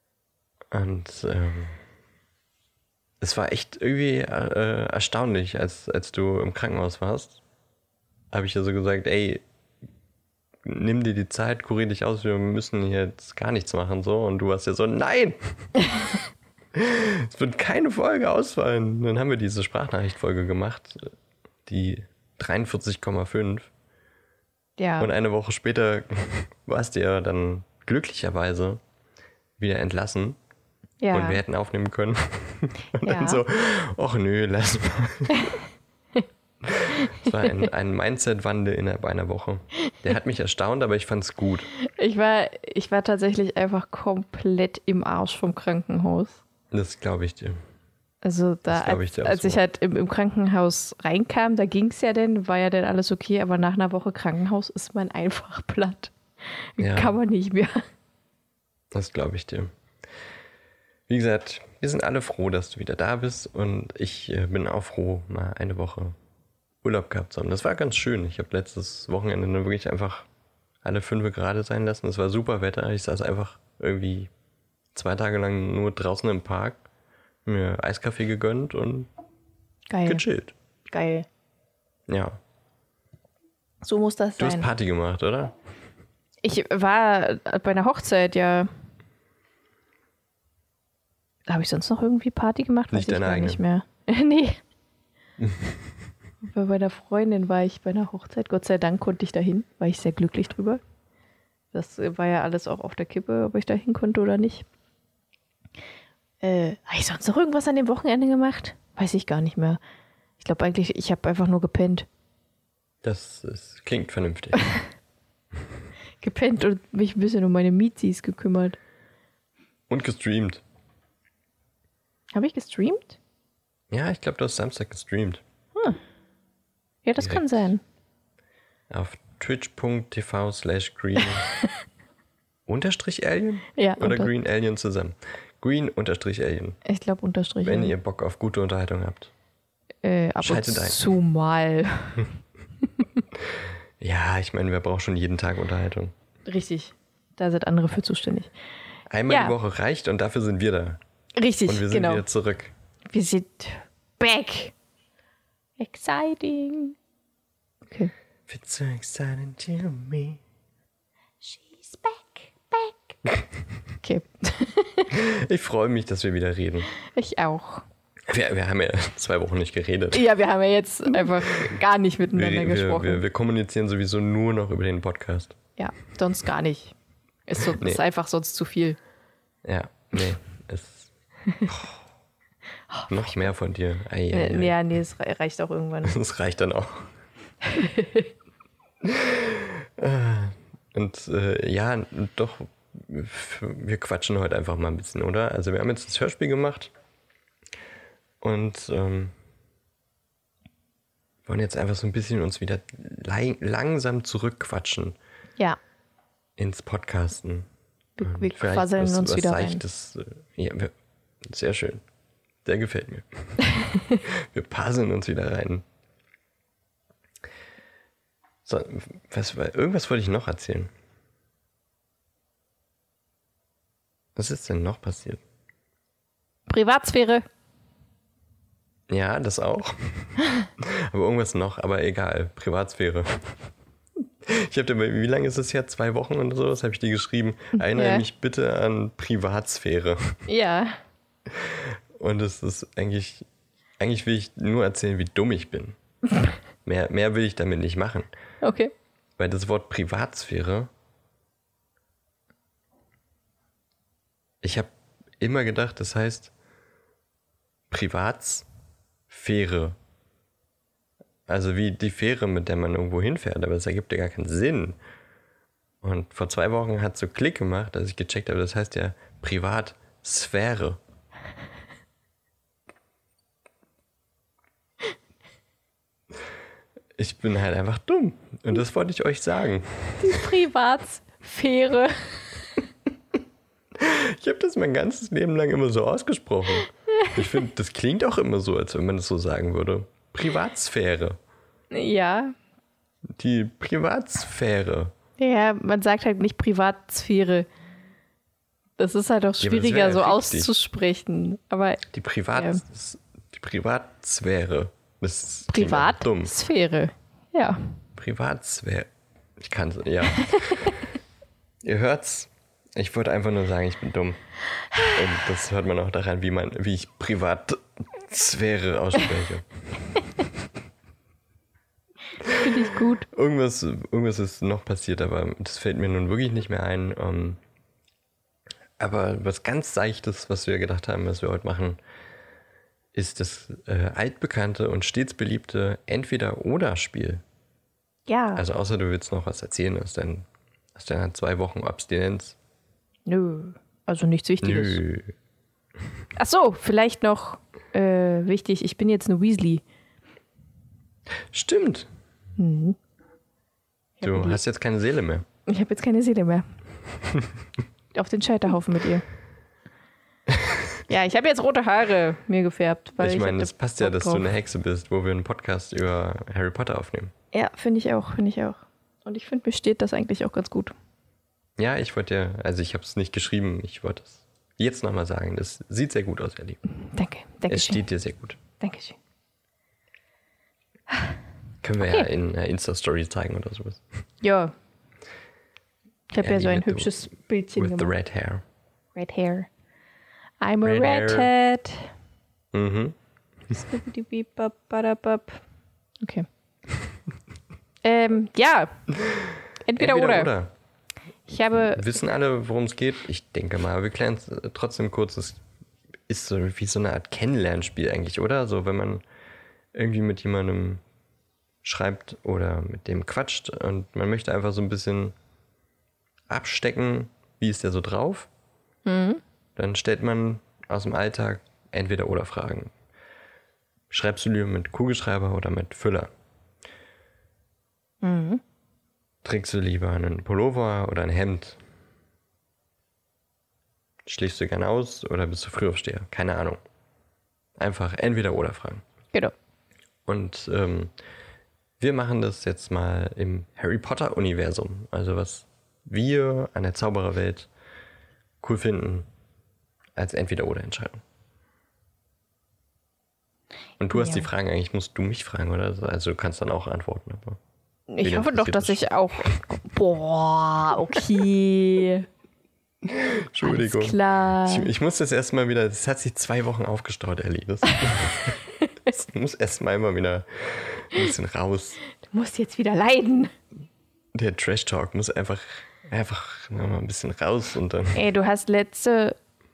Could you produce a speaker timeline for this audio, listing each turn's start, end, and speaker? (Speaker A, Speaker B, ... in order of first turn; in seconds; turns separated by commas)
Speaker A: 0.7-1.8, Speaker A: 3.2-7.4, Speaker A: 8.3-9.4, Speaker A: 10.6-15.7, Speaker A: 16.7-21.1, Speaker A: 21.6-23.7, Speaker B: 24.8-25.1, Speaker A: 25.0-28.8, Speaker A: 29.6-30.4, Speaker B: 31.0-31.4, Speaker A: 31.1-35.5, Speaker B: 33.0-33.4, Speaker A: 36.6-41.7, Speaker B: 36.9-37.6, Speaker B: 41.8-46.4, Speaker A: 46.7-47.6, Speaker B: 48.2-56.1, Speaker A: 48.7-49.6, Speaker B: 56.8-57.8, Speaker A: 56.8-57.2, Speaker A: 58.9-59.7, Speaker A: 61.1-66.1, Speaker A: 66.8-70.3, Speaker A: 70.8-74.3, Speaker A: 74.9-76.8, Speaker A: 77.4-79.1, Speaker B: 79.9-80.2, Speaker A: 80.0-80.5, Speaker B: 80.9-81.2, Speaker A: 82.1-82.4, Speaker B: 83.8-84.7, Speaker A: 84.4-85.5, Speaker B: 86.4-88.7, Speaker B: 91.5-94.6, Speaker A: 92.9-93.6, Speaker A: 95.4-95.7, Speaker B: 96.4-100.8, Speaker B: 101.7-104.7, Speaker B: 106.4-109.8, Speaker B: 110.4-112.1, Speaker A: 113.0-114.7, Speaker B: 116.2-118.8, Speaker A: 119.9-120.6, Speaker B: 122.3-123.2, Speaker A: 123.9-125.4, Speaker B: 127.0-127.8, Speaker A: 127.2-127.7, Speaker A: 128.9-131.5, Speaker A: 132.7-136.8, Speaker B: 133.8-134.3, Speaker B: 136.8-137.9, Speaker A: 137.6-139.3, Speaker B: 140.0-142.3, Speaker A: 140.4-141.0, Speaker A: 143.6-146.1, Speaker B: 146.5-148.5, Speaker A: 149.1-151.0, Speaker B: 149.3-149.5, Speaker B: 151.3-152.2, Speaker A: 151.7-152.7, Speaker B: 153.1-154.7, Speaker B: 155.8-156.9, Speaker A: 158.5-160.4, Speaker B: 161.4-163.1, Speaker B: 164.0-165.1, Speaker A: 165.1-166.9, Speaker B: 167.0-167.8, Speaker A: 168.3-170.3, Speaker B: 170.1-173.2, Speaker A: 171.2-171.7, Speaker A: 172.3-175.6, Speaker B: 175.8-176.9, Speaker B: 177.5-179.0, Speaker A: 179.6-181.1, Speaker A: 181.7-182.0, Speaker A: 183.1-184.8, Speaker B: 184.3-186.2, Speaker A: 186.0-187.1, Speaker B: 187.6-188.3, Speaker A: 189.0-196.9, Speaker A: 198.4-199.3, Speaker A: 201.4-205.2, Speaker A: 206.6-207.7, Speaker B: 208.2-209.8, Speaker A: 208.2-212.0, Speaker A: 212.6-215.8, Speaker B: 213.8-214.2, Speaker A: 218.6-220.9, Speaker A: 224.3-225.4, Speaker B: 226.7-227.4, Speaker A: 229.1-233.6, Speaker A: 234.4-240.4, Speaker B: 237.8-238.2, Speaker B: 240.5-241.0, Speaker A: 241.5-243.4, Speaker A: 244.0-246.0, Speaker A: 246.8-248.3, Speaker B: 248.6-248.9, Speaker A: 249.4-250.9, Speaker A: 254.6-256.5, Speaker A: 257.9-258.7, Speaker A: 259.3-260.0, Speaker A: 261.5-265.0, Speaker A: 266.0-271.0, Speaker A: 277.2-280.5, Speaker B: 280.2-282.6, Speaker A: 283.9-291.4, Speaker B: 291.9-292.6, Speaker A: 293.4-295.1, Speaker B: 295.4-297.7, Speaker B: 299.0-302.0, Speaker A: 299.6-300.7, Speaker A: 302.1-306.5, Speaker B: 302.6-302.8, Speaker B: 305.7-308.0, Speaker A: 308.2-310.9, Speaker B: 310.4-310.9, Speaker A: 311.8-314.4, Speaker A: 315.0-319.7, Speaker A: 322.4-322.7, Speaker B: 322.5-323.2, Speaker A: 323.3-327.6, Speaker A: 329.0-332.0, Speaker A: 333.1-337.4, Speaker B: 338.3-338.6, Speaker A: 338.6-342.6, Speaker B: 343.2-345.0, Speaker A: 344.6-345.3, Speaker B: 346.4-349.8, Speaker A: 351.5-352.1, Speaker B: 352.6-353.0, Speaker B: 354.2-354.6, Speaker A: 354.2-355.4, Speaker B: 355.7-356.6, Speaker B: 358.1-359.2, Speaker A: 360.5-360.8, Speaker B: 361.1-364.5, Speaker A: 363.2-367.3, Speaker B: 367.5-370.9, Speaker A: 371.8-376.8, Speaker B: 377.0-378.0, Speaker A: 377.7-378.6, Speaker B: 378.8-379.2, Speaker A: 381.8-384.0, Speaker B: 384.4-384.7, Speaker B: 386.3-388.1, Speaker A: 386.4-387.1, Speaker A: 387.8-388.6, Speaker B: 389.1-389.7, Speaker B: 390.6-392.1, Speaker A: 390.8-391.5, Speaker A: 392.7-393.1, Speaker B: 393.7-395.6, Speaker B: 398.0-399.0, Speaker B: 399.9-400.5, Speaker A: 400.0-400.7, Speaker B: 401.5-402.0, Speaker A: 401.9-405.6, Speaker A: 406.3-409.2, Speaker A: 409.9-411.0, Speaker A: 411.8-415.3, Speaker A: 416.5-418.5, Speaker B: 419.1-419.4, Speaker A: 419.8-422.9, Speaker A: 424.1-426.3, Speaker B: 428.2-428.6, Speaker A: 429.4-431.8, Speaker A: 434.2-436.8, Speaker A: 437.8-439.0, Speaker A: 440.2-441.1, Speaker A: 442.0-447.7, Speaker A: 448.6-449.3, Speaker A: 450.1-451.2, Speaker A: 454.0-457.6, Speaker B: 454.1-454.5, Speaker B: 458.1-462.2, Speaker A: 458.2-459.0, Speaker A: 463.0-472.0, Speaker B: 463.6-464.9, Speaker B: 472.2-473.5, Speaker A: 474.3-478.2, Speaker B: 478.1-479.4